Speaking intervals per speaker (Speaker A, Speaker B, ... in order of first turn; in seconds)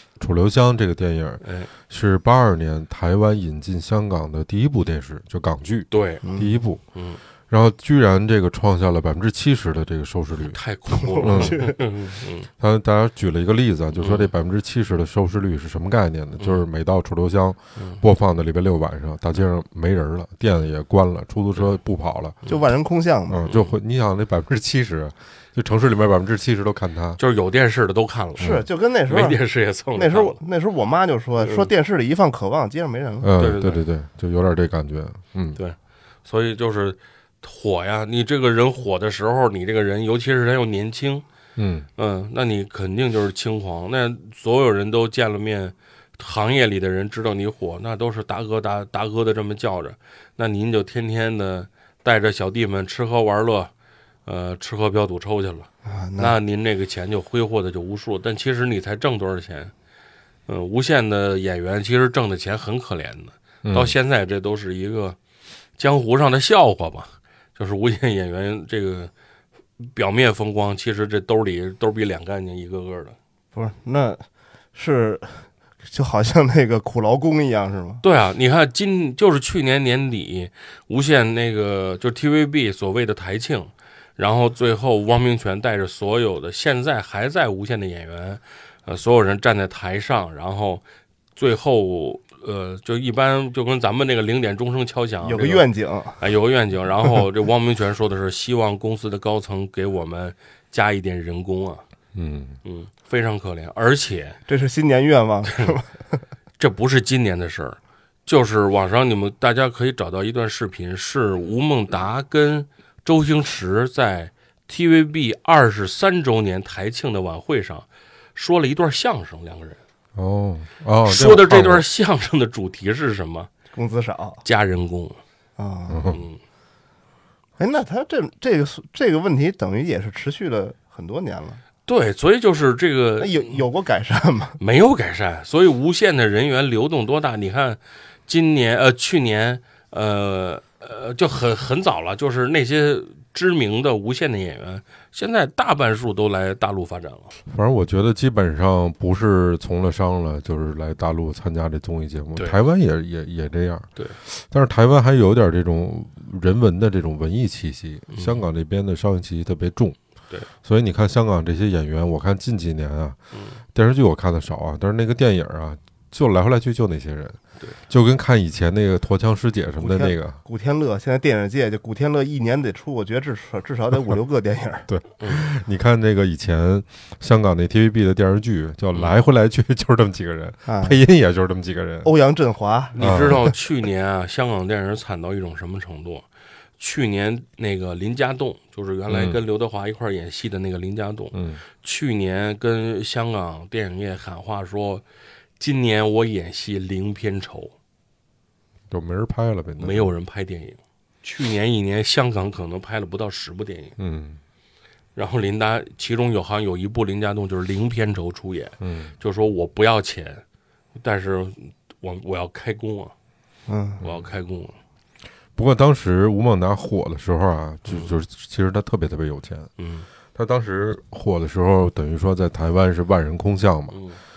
Speaker A: 0.2-6.8, 7.5-10.6, 11.2-11.7, 12.6-22.4, 23.3-27.2, 28.4-28.6, 33.2-35.6, 41.6-41.9, 63.6-64.0, 102.2-102.6, 120.2-121.8, 125.9-126.2, 147.5-160.0, 160.6-163.2, 163.7-170.4, 174.9-182.1, 183.0-183.5, 189.1-189.4, 191.3-191.6, 198.9-200.1, 204.0-204.4, 208.8-209.1, 215.6-219.7, 220.3-224.0
Speaker B: 1.4-1.7, 5.9-6.3, 6.9-7.2, 10.4-12.5, 14.0-14.3, 16.4-16.6, 17.8-18.0, 23.4-23.8, 27.2-30.4, 31.4-31.7, 33.4-33.8, 35.6-41.2, 42.0-53.7, 54.2-59.7, 60.5-65.2, 65.8-69.1, 69.8-73.2, 78.0-90.8, 91.4-95.7, 96.2-101.8, 102.6-104.4, 106.6-119.8, 121.0-123.5, 124.4-125.2, 126.1-126.4, 131.9-133.6, 134.6-147.3, 158.1-158.4, 163.3-163.6, 175.2-175.5, 182.9-186.3, 186.8-195.0, 195.6-197.7, 199.8-203.9, 205.2-210.4, 210.9-213.1, 214.0-214.8, 217.9-218.1, 219.8-220.1, 223.9-224.2
Speaker C: 6.2-6.6, 10.9-11.8, 22.5-23.5, 28.4-29.4, 29.9-33.3, 55.9-56.4, 73.5-78.0, 95.2-96.2, 104.5-106.0, 123.7-124.4, 125.6-126.2, 127.6-131.6, 133.2-134.6, 169.8-174.9, 180.7-181.0, 182.0-183.5, 213.7-214.0